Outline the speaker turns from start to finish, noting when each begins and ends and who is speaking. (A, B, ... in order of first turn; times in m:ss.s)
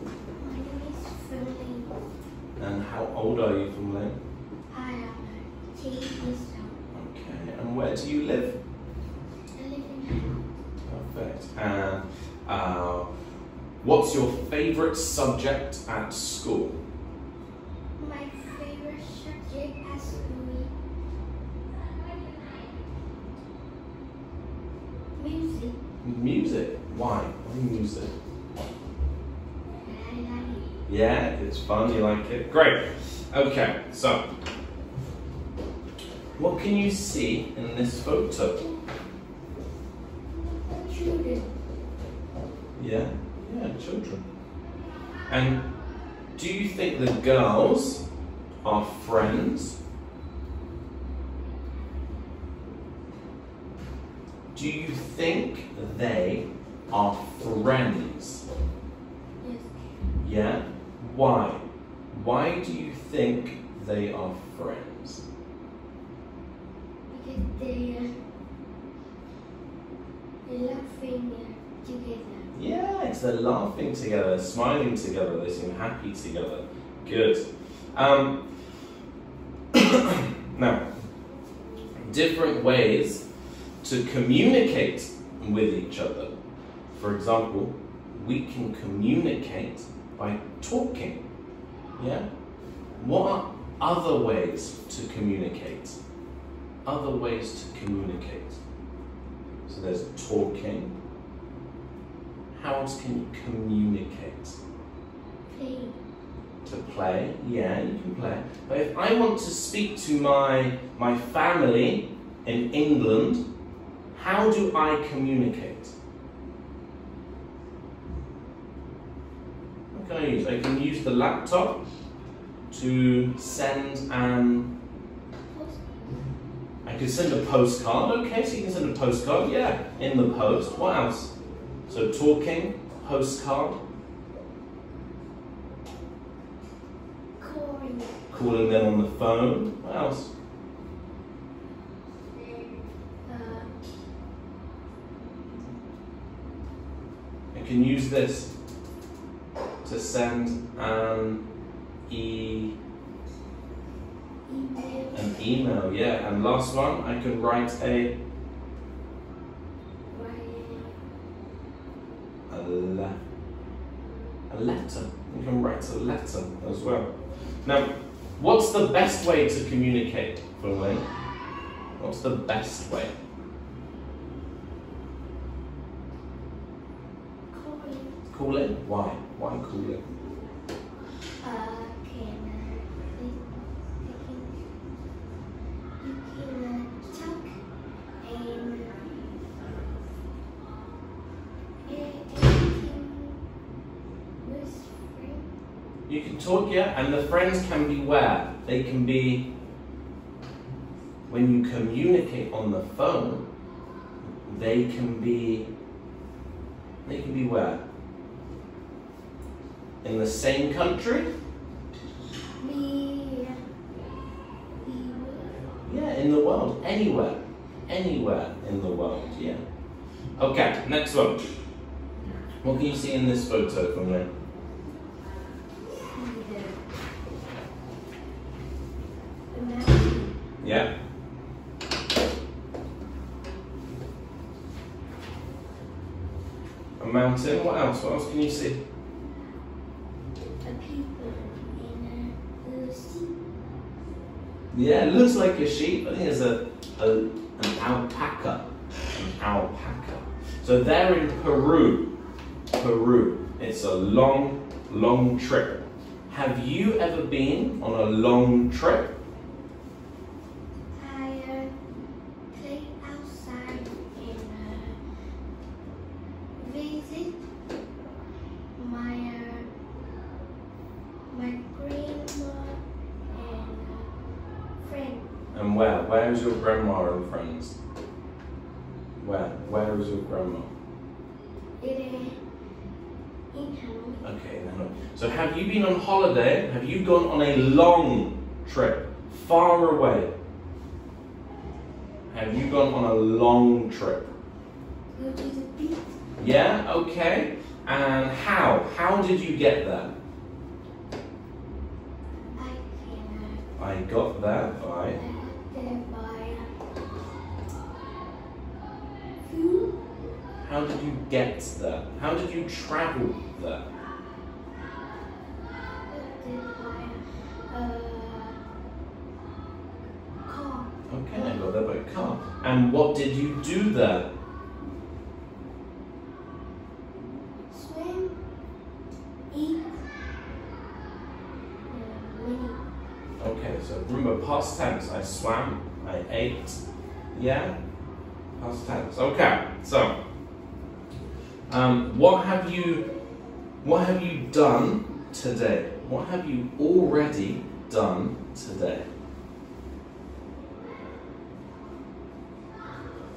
0:00.4-0:01.9 A
0:02.6-0:04.2 B
0:04.7-0:06.8 A
0:06.9-0:08.6 B
0:09.6-0:10.5 A
0:10.8-0:13.1 B
0:13.8-0:16.8 B
0:18.0-0:20.7 A
0:25.2-0:25.8 A
0:26.0-0:28.1 B
0:29.8-0:30.7 A
0:30.9-0:34.2 B
0:36.4-0:38.6 B
0:40.3-0:41.5 A
0:42.8-0:44.2 B
0:45.3-0:45.6 B
0:46.4-0:48.0 B
0:48.6-0:49.8 B
0:54.5-0:58.4 B
0:59.4-0:59.9 A
1:00.2-1:05.2 B
1:07.1-1:08.1 A
1:10.4-1:12.5 A
1:12.5-1:18.4 B
1:19.7-1:20.9 B
1:22.0-1:23.2 B
1:23.8-1:26.3 B
1:26.9-1:31.2 B
1:32.0-1:32.2 B
1:33.0-1:36.0 B
1:36.8-1:38.6 B
1:39.7-1:40.9 B
1:42.5-1:44.6 B
1:45.5-1:46.0 A
1:46.6-1:53.4 B
1:54.1-1:55.9 B
1:59.9-2:01.8 B
2:02.7-2:04.7 B
2:05.5-2:06.1 A
2:06.8-2:11.3 B
2:11.9-2:13.8 B
2:17.4-2:18.2 A
2:18.3-2:20.3 B
2:22.3-2:23.7 A
2:27.5-2:28.5 B
2:29.8-2:31.4 B
2:32.1-2:32.8 B
2:34.5-2:35.2 A
2:35.1-2:38.1 B
2:40.1-2:41.0 A
2:42.5-2:43.2 B
2:44.5-2:47.1 B
2:47.6-2:51.1 B
2:52.0-2:53.1 B
2:57.5-2:58.2 A
2:58.3-3:00.0 B
3:01.4-3:03.5 A
3:04.0-3:04.6 A
3:06.0-3:07.6 A
3:08.2-3:09.2 A
3:11.8-3:13.4 A
3:14.4-3:15.5 A
3:16.1-3:19.5 B
3:21.3-3:23.4 B
3:24.4-3:25.7 B
3:27.0-3:27.8 B
3:30.0-3:31.3 B
3:32.6-3:33.6 A
3:34.8-3:35.6 A
3:35.8-3:39.6 B
3:40.4-3:41.4 B
3:42.6-3:44.3 B
3:46.1-3:46.8 A
3:49.5-3:50.4 A
3:50.6-3:50.9 B
3:57.0-3:58.8 B
4:00.6-4:03.4 A
4:04.7-4:12.1 B
4:12.7-4:19.1 B
4:21.0-4:21.7 A
4:22.5-4:25.0 A
4:26.6-4:27.4 A
4:28.8-4:29.7 A
4:31.3-4:34.1 A
4:34.8-4:35.3 A
4:35.5-4:37.8 B
4:39.2-4:40.7 B
4:41.8-4:42.4 A
4:43.5-4:44.2 A
4:44.2-4:50.3 B
4:52.3-4:54.3 B
4:55.2-4:56.1 A
4:56.4-5:00.1 B
5:02.6-5:03.6 A
5:03.8-5:05.2 B
5:05.1-5:06.7 A
5:09.4-5:10.0 A
5:10.6-5:13.8 B
5:16.1-5:18.6 A
5:20.4-5:21.6 A
5:21.1-5:24.3 B
5:27.7-5:28.4 A
5:29.5-5:30.1 A
5:31.9-5:32.8 A
5:33.4-5:36.8 B
5:37.3-5:37.8 B
5:38.6-5:40.1 B
5:41.7-5:43.0 B
5:43.8-5:49.1 B